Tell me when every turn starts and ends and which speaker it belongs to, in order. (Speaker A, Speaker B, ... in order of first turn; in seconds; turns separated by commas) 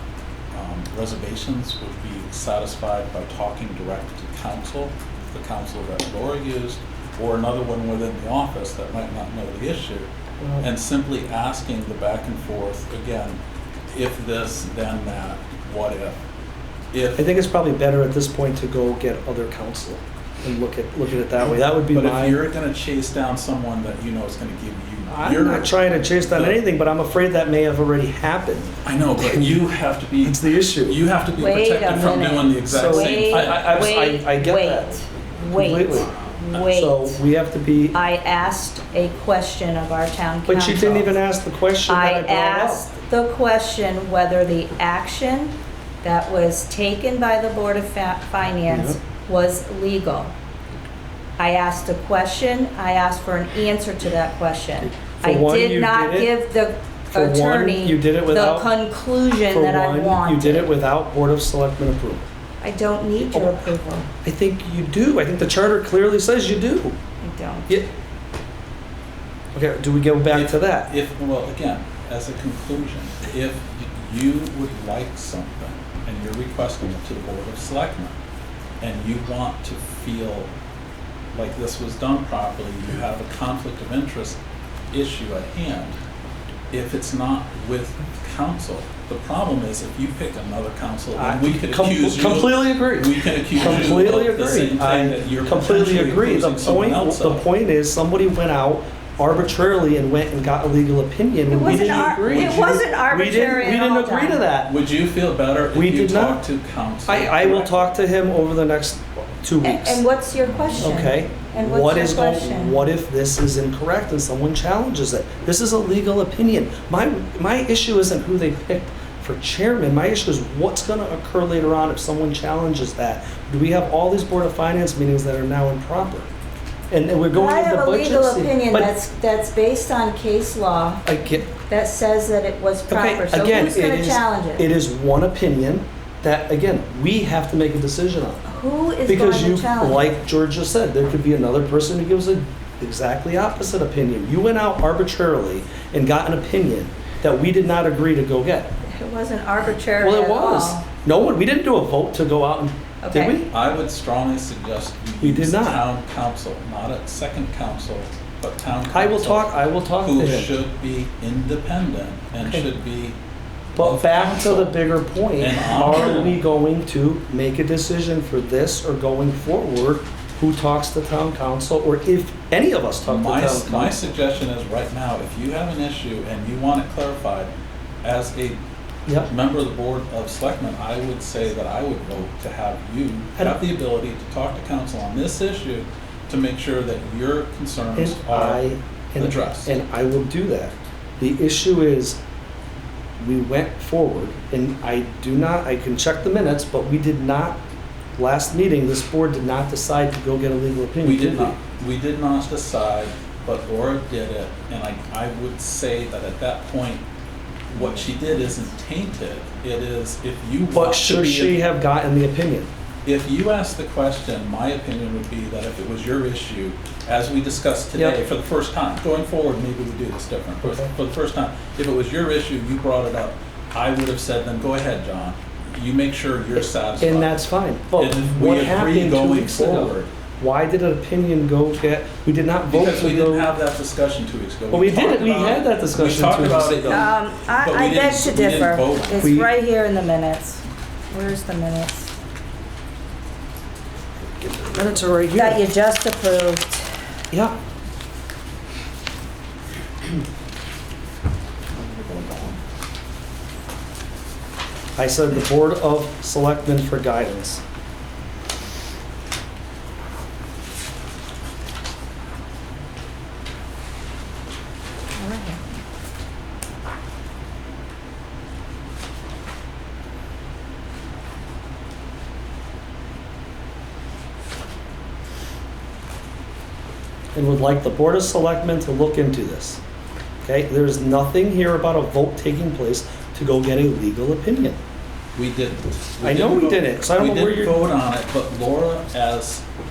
Speaker A: 0.5-13.4, Speaker B: 10.4-10.7, Speaker A: 13.9-16.2, Speaker A: 16.9-17.2, Speaker B: 17.1-22.4, Speaker A: 21.9-26.6, Speaker B: 25.1-29.6, Speaker A: 28.8-33.7, Speaker B: 30.2-31.0, Speaker C: 31.4-37.2, Speaker B: 32.7-35.0, Speaker B: 35.5-38.0, Speaker C: 37.9-41.2, Speaker B: 40.5-42.9, Speaker C: 41.9-50.3, Speaker B: 48.7-49.0, Speaker C: 51.4-60.7, Speaker B: 55.1-56.3, Speaker B: 57.1-58.7, Speaker B: 59.5-62.3, Speaker C: 62.6-64.1, Speaker B: 63.3-63.7, Speaker B: 64.2-66.9, Speaker C: 67.2-67.8, Speaker B: 69.5-70.9, Speaker A: 70.3-78.2, Speaker A: 78.8-80.5, Speaker A: 81.3-84.4, Speaker A: 84.9-86.0, Speaker A: 86.7-97.4, Speaker B: 91.1-104.7, Speaker C: 101.5-104.5, Speaker A: 101.6-102.5, Speaker A: 104.7-108.0, Speaker B: 105.7-106.4, Speaker B: 107.0-110.0, Speaker C: 109.6-112.8, Speaker B: 110.8-126.3, Speaker B: 126.9-128.9, Speaker C: 127.3-134.7, Speaker B: 131.0-131.5, Speaker B: 132.9-138.4, Speaker C: 138.4-140.1, Speaker B: 139.1-148.7, Speaker C: 148.9-150.8, Speaker B: 150.0-153.5, Speaker C: 153.0-153.4, Speaker A: 153.5-163.2, Speaker B: 155.2-155.8, Speaker B: 158.9-160.5, Speaker B: 162.4-162.7, Speaker B: 163.8-174.1, Speaker A: 163.8-164.8, Speaker A: 165.4-166.4, Speaker A: 173.0-177.5, Speaker A: 178.0-178.6, Speaker B: 179.1-179.3, Speaker A: 179.2-188.6, Speaker B: 187.9-192.2, Speaker A: 189.2-189.7, Speaker B: 193.2-197.6, Speaker B: 198.2-201.6, Speaker A: 201.0-207.0, Speaker A: 207.7-211.6, Speaker C: 207.8-208.6, Speaker B: 210.7-212.7, Speaker A: 213.0-227.4, Speaker B: 217.9-218.2, Speaker B: 220.6-220.9, Speaker B: 226.6-233.5, Speaker A: 228.0-230.1, Speaker A: 232.7-239.4, Speaker B: 234.7-237.1, Speaker C: 236.9-242.1, Speaker B: 239.2-239.5, Speaker B: 244.2-245.6, Speaker C: 245.3-246.8, Speaker B: 247.3-247.6, Speaker B: 254.9-257.6, Speaker C: 265.1-265.6, Speaker B: 277.3-279.8, Speaker B: 280.4-284.8, Speaker A: 285.3-289.6, Speaker B: 286.2-287.8